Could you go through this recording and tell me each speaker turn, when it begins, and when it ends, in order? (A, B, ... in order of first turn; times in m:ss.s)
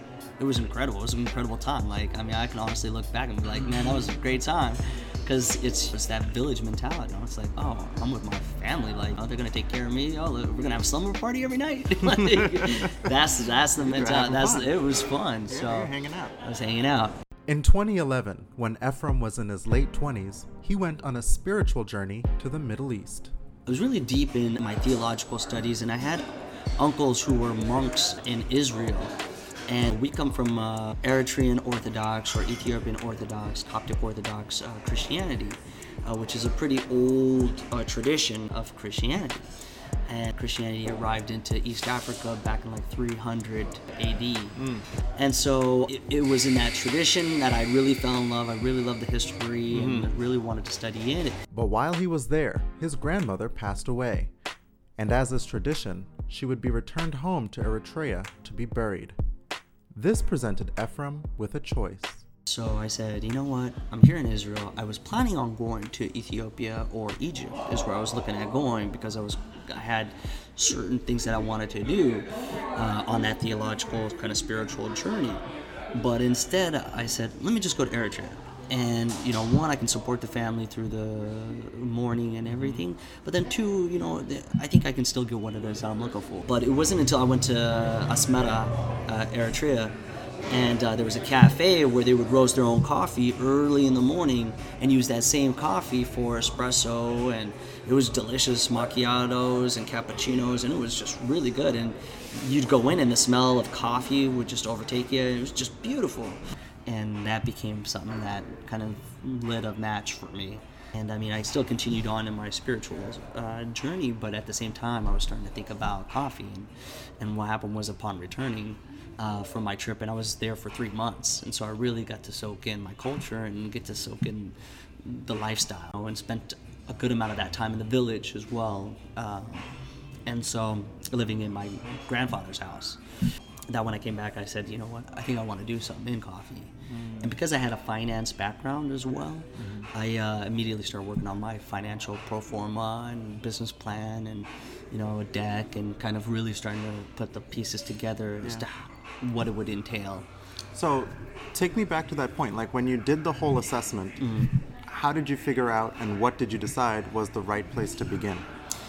0:00.4-0:15.9 A
0:12.1-0:12.9 B
0:13.8-0:14.7 B
0:15.5-0:16.4 B
0:16.4-0:17.2 A
0:17.5-0:23.3 B
0:23.7-0:26.3 A
0:26.8-0:29.1 A
0:29.7-0:39.6 A
0:40.1-0:44.6 A
0:44.6-0:44.8 B
0:45.2-0:51.4 A
0:49.7-0:50.1 B
0:51.5-0:54.3 B
0:55.0-0:59.2 B
1:00.0-1:02.2 B
1:02.5-1:29.9 A
1:22.5-1:22.8 B
1:30.5-2:09.7 A
2:10.3-2:13.0 A
2:13.7-2:30.3 A
2:16.9-2:17.4 B
2:19.6-2:19.9 B
2:30.7-2:34.2 B
2:34.2-2:34.5 A
2:34.9-2:38.5 B